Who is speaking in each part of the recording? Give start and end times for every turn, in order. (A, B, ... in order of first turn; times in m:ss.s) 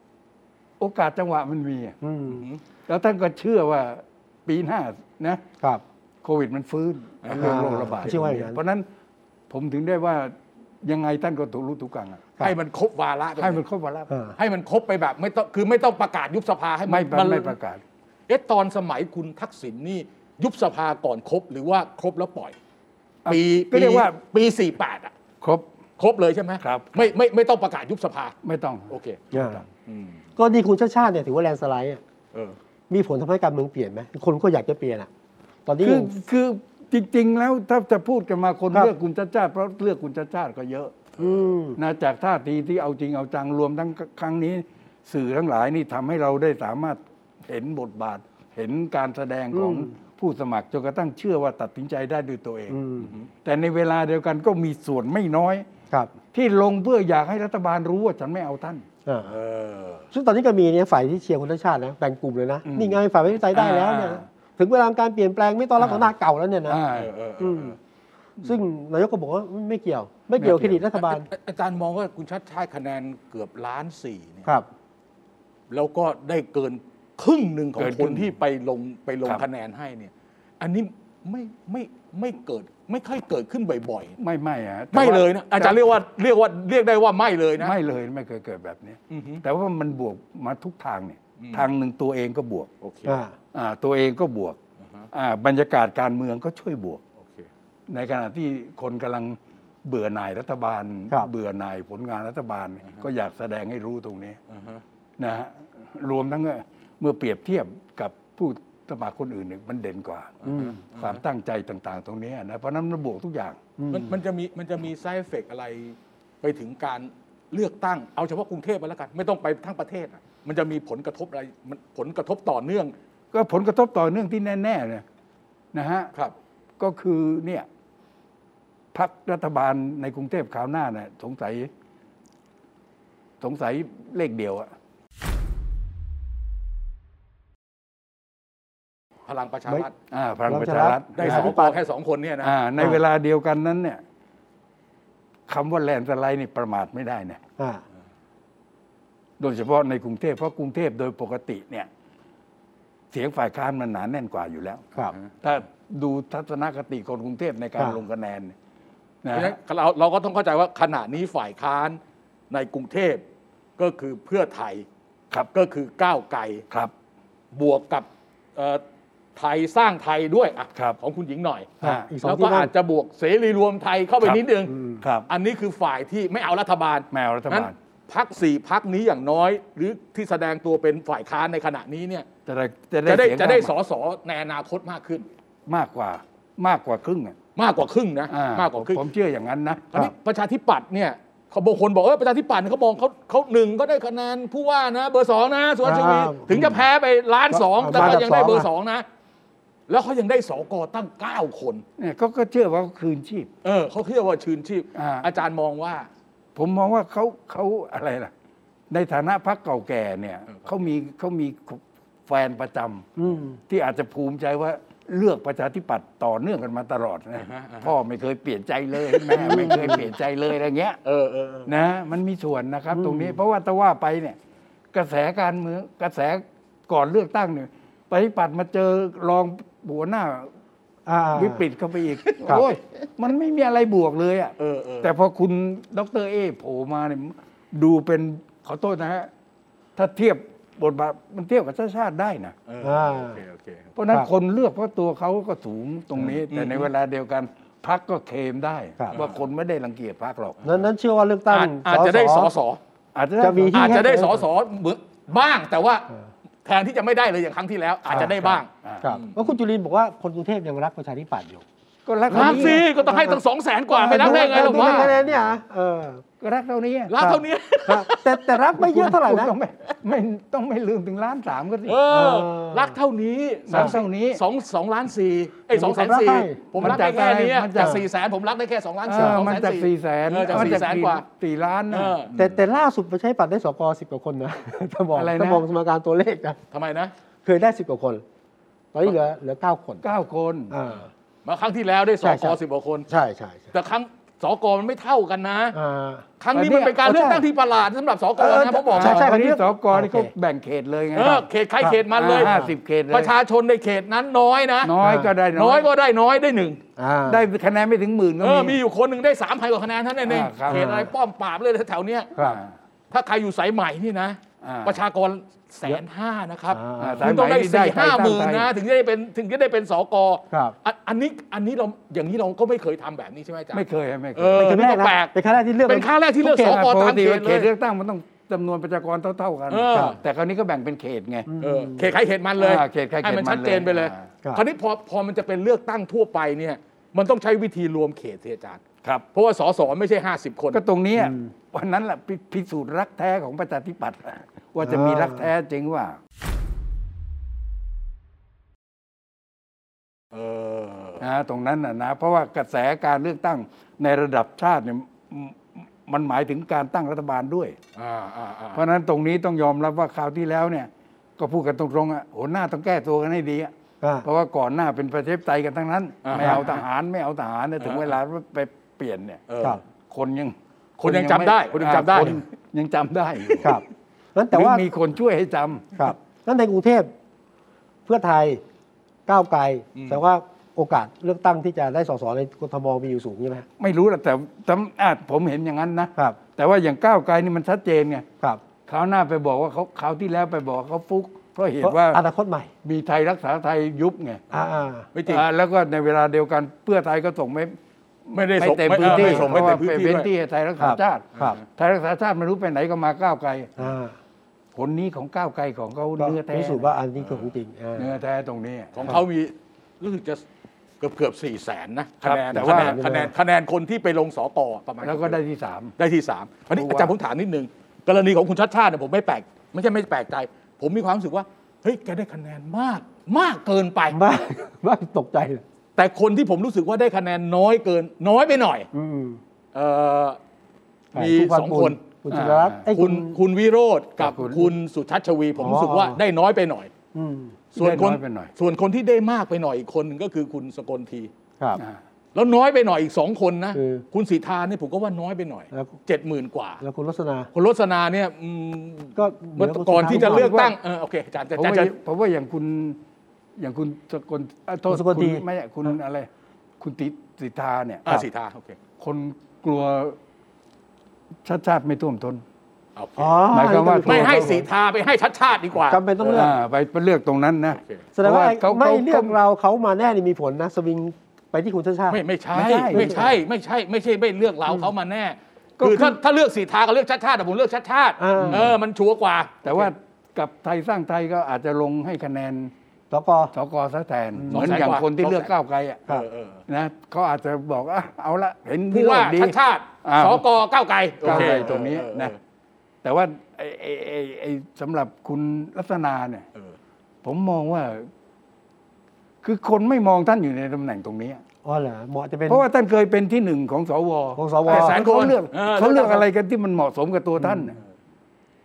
0:00.8-0:02.0 A
0:02.0-0:02.4 B
0:02.3-0:02.6 C
0:02.9-0:05.4 A
0:06.2-0:08.9 A
0:07.2-0:08.1 C
0:07.3-0:08.6 B
0:09.5-0:12.3 A
0:12.4-0:13.6 C
0:13.4-0:14.1 A
0:14.1-0:14.4 B
0:14.4-0:17.6 C
0:16.9-0:17.8 A
0:18.3-0:22.6 C
0:23.2-0:24.2 A
0:23.3-0:25.1 C
0:25.4-0:25.7 A
0:26.0-0:28.4 C
0:26.6-0:27.1 A
0:28.4-0:29.6 A
0:28.9-0:30.2 C
0:29.3-0:29.6 B
0:30.4-0:32.0 B
0:32.9-0:35.1 B
0:35.7-0:36.1 B
0:35.8-0:41.0 A
0:41.2-0:41.8 B
0:41.8-0:52.8 A
0:49.5-0:49.9 B
0:52.7-0:53.1 B
0:53.4-0:55.7 A
0:56.3-0:58.8 A
0:59.1-0:59.3 B
0:59.3-1:00.1 C
1:00.1-1:06.8 B
1:02.6-1:04.2 A
1:05.8-1:06.1 A
1:06.7-1:07.1 A
1:06.9-1:07.8 C
1:07.4-1:07.8 B
1:08.4-1:11.3 B
1:10.4-1:10.8 A
1:11.0-1:14.5 C
1:15.7-1:24.2 C
1:17.8-1:18.3 A
1:24.2-1:25.8 A
1:24.9-1:27.7 C
1:27.6-1:32.7 A
1:29.1-1:29.4 C
1:31.4-1:31.7 C
1:32.8-1:33.2 C
1:33.1-1:33.4 B
1:33.5-1:34.6 A
1:34.8-1:35.1 C
1:35.1-1:37.0 A
1:37.2-1:37.5 C
1:37.9-1:44.4 A
1:44.5-1:44.8 C
1:45.2-1:53.7 A
1:50.4-1:51.2 C
1:50.5-1:50.8 B
1:53.8-1:54.1 B
1:53.9-2:02.9 C
2:03.3-2:05.0 A
2:05.7-2:06.1 A
2:06.8-2:07.7 A
2:08.9-2:11.7 A
2:13.4-2:14.7 A
2:19.3-2:19.9 C
2:20.1-2:21.6 A
2:20.5-2:21.8 B
2:21.2-2:22.6 C
2:22.4-2:24.0 A
2:25.5-2:27.4 A
2:27.6-2:27.8 B
2:29.4-2:31.9 A
2:33.1-2:34.9 A
2:35.4-2:38.6 A
2:39.2-2:39.6 A
2:39.3-2:42.0 C
2:42.5-2:43.2 C
2:43.8-2:44.9 C
2:45.5-2:46.6 C
2:47.5-2:48.8 C
2:49.4-2:54.7 C
2:51.8-2:52.7 B
2:51.8-2:52.1 A
2:54.7-2:55.0 B
2:55.0-2:55.3 A
2:55.3-3:02.3 C
2:57.1-2:57.8 A
3:02.5-3:03.7 A
3:03.0-3:05.3 C
3:05.7-3:07.4 A
3:07.6-3:09.0 C
3:08.3-3:10.1 A
3:09.9-3:19.1 C
3:15.8-3:16.6 B
3:16.5-3:16.8 A
3:17.5-3:18.7 B
3:17.9-3:18.2 A
3:19.9-3:21.8 C
3:22.0-3:23.5 A
3:23.6-3:26.1 C
3:25.0-3:25.3 A
3:26.6-3:28.3 A
3:28.9-3:41.0 A
3:33.2-3:33.6 B
3:37.4-3:37.9 C
3:39.1-3:40.0 C
3:39.4-3:40.0 B
3:41.0-3:41.7 C
3:41.7-3:44.4 A
3:42.9-3:43.4 B
3:44.9-3:50.5 A
3:51.1-3:51.6 B
3:51.3-3:59.3 A
3:54.6-3:55.1 C
4:00.0-4:02.6 A
4:02.7-4:03.9 C
4:02.8-4:03.4 B
4:04.0-4:10.6 A
4:06.2-4:06.9 C
4:09.1-4:09.4 C
4:10.6-4:12.5 B
4:11.5-4:12.8 C
4:13.2-4:14.3 A
4:13.4-4:14.4 B
4:13.7-4:16.1 C
4:16.6-4:19.4 C
4:18.1-4:19.0 A
4:19.0-4:21.6 B
4:22.1-4:22.9 A
4:22.3-4:23.4 B
4:22.3-4:25.1 C
4:23.9-4:25.3 A
4:24.0-4:26.2 B
4:26.4-4:27.1 A
4:27.1-4:28.6 C
4:27.2-4:29.5 B
4:28.8-4:32.0 A
4:31.8-4:41.3 C
4:32.1-4:32.9 B
4:33.7-4:34.4 A
4:35.7-4:37.0 B
4:36.8-4:38.0 A
4:37.8-4:38.0 B
4:39.1-4:42.5 A
4:41.9-4:42.4 C
4:42.3-4:46.6 B
4:45.1-4:45.7 A
4:46.7-4:47.1 C
4:47.4-4:48.2 B
4:48.9-4:50.1 B
4:50.0-4:50.7 A
4:50.7-4:51.1 B
4:51.4-4:53.1 C
4:52.2-4:52.6 B
4:53.1-4:53.7 B
4:53.7-4:55.8 C
4:55.7-4:56.2 B
4:56.4-4:59.3 C
4:56.5-4:57.5 A
4:58.4-5:00.3 B
4:58.4-5:01.5 A
5:01.2-5:02.5 C
5:01.8-5:02.7 B
5:02.1-5:03.3 A
5:03.1-5:05.0 C
5:04.8-5:05.9 A
5:05.0-5:05.3 B
5:05.5-5:06.8 C
5:07.0-5:07.4 B
5:07.3-5:08.8 A
5:08.4-5:12.5 C
5:10.2-5:10.9 A
5:10.7-5:11.1 B
5:12.4-5:12.8 A
5:13.1-5:23.8 C
5:14.6-5:15.0 A
5:16.7-5:17.3 B
5:17.0-5:18.7 A
5:23.7-5:25.1 A
5:24.4-5:27.7 C
5:24.6-5:26.1 B
5:26.4-5:31.5 A
5:29.7-5:30.2 C
5:31.5-5:32.1 B
5:31.6-5:40.8 C
5:32.6-5:34.3 A
5:40.7-5:46.2 A
5:41.2-5:41.5 B
5:44.8-5:45.5 B
5:50.3-5:51.2 C
5:51.2-5:57.8 A
5:58.0-5:58.8 C
5:58.7-6:03.7 A
6:04.0-6:04.3 B
6:04.2-6:09.4 A
6:06.2-6:06.8 C
6:07.8-6:08.2 C
6:09.5-6:09.8 C
6:10.1-6:13.8 A
6:11.0-6:12.4 C
6:14.4-6:14.8 B
6:14.5-6:16.1 A
6:16.0-6:17.1 B
6:18.1-6:18.6 B
6:19.3-6:23.7 B
6:20.0-6:20.2 C
6:23.8-6:28.3 A
6:28.9-6:32.2 A
6:31.8-6:32.7 B
6:32.8-6:34.4 A
6:34.5-6:35.1 B
6:35.1-6:35.4 C
6:35.2-6:37.8 A
6:38.3-6:43.8 A
6:38.3-6:40.3 C
6:39.0-6:39.6 B
6:40.8-6:41.6 B
6:41.4-6:41.6 C
6:43.8-6:44.2 B
6:44.7-6:46.9 A
6:46.2-6:48.1 B
6:47.2-6:47.5 C
6:48.0-6:49.1 A
6:48.9-6:50.4 C
6:51.0-6:55.4 C
6:52.2-6:53.0 A
6:52.5-6:53.3 B
6:55.0-6:56.0 A
6:56.0-7:04.2 C
6:56.7-6:57.1 A
7:04.1-7:05.6 B
7:06.0-7:08.9 C
7:08.9-7:09.4 B
7:09.7-7:10.4 C
7:11.2-7:12.0 C
7:11.2-7:13.4 B
7:12.3-7:12.8 A
7:13.0-7:16.9 C
7:14.2-7:14.7 A
7:15.6-7:16.2 B
7:17.1-7:17.6 B
7:17.7-7:21.3 C
7:17.8-7:18.5 A
7:22.4-7:26.8 C
7:23.7-7:24.0 B
7:26.8-7:27.5 B
7:27.5-7:31.9 C
7:29.2-7:30.5 B
7:30.1-7:30.8 A
7:31.6-7:33.0 A
7:33.6-7:36.3 A
7:34.9-7:35.4 B
7:36.8-7:38.2 A
7:38.1-7:38.8 C
7:39.0-7:40.2 A
7:41.4-7:42.4 A
7:43.0-7:43.4 C
7:43.2-7:44.6 B
7:43.5-7:44.6 A
7:44.0-7:46.5 C
7:45.9-7:46.5 B
7:46.3-7:49.4 A
7:48.2-7:52.2 B
7:52.1-7:59.9 C
7:52.5-7:53.3 A
7:52.9-7:53.4 B
7:55.8-7:56.2 A
7:58.2-7:58.7 B
7:58.4-7:58.7 A
7:59.6-8:02.7 A
8:03.1-8:03.5 B
8:03.5-8:06.1 A
8:04.4-8:04.8 B
8:04.5-8:05.5 C
8:06.1-8:06.6 C
8:06.7-8:10.4 A
8:08.9-8:12.4 C
8:11.2-8:12.4 A
8:11.2-8:11.7 B
8:13.0-8:16.4 A
8:17.2-8:18.1 A
8:19.4-8:21.4 A
8:21.6-8:22.6 B
8:22.5-8:27.8 A
8:24.4-8:25.0 B
8:24.7-8:26.2 C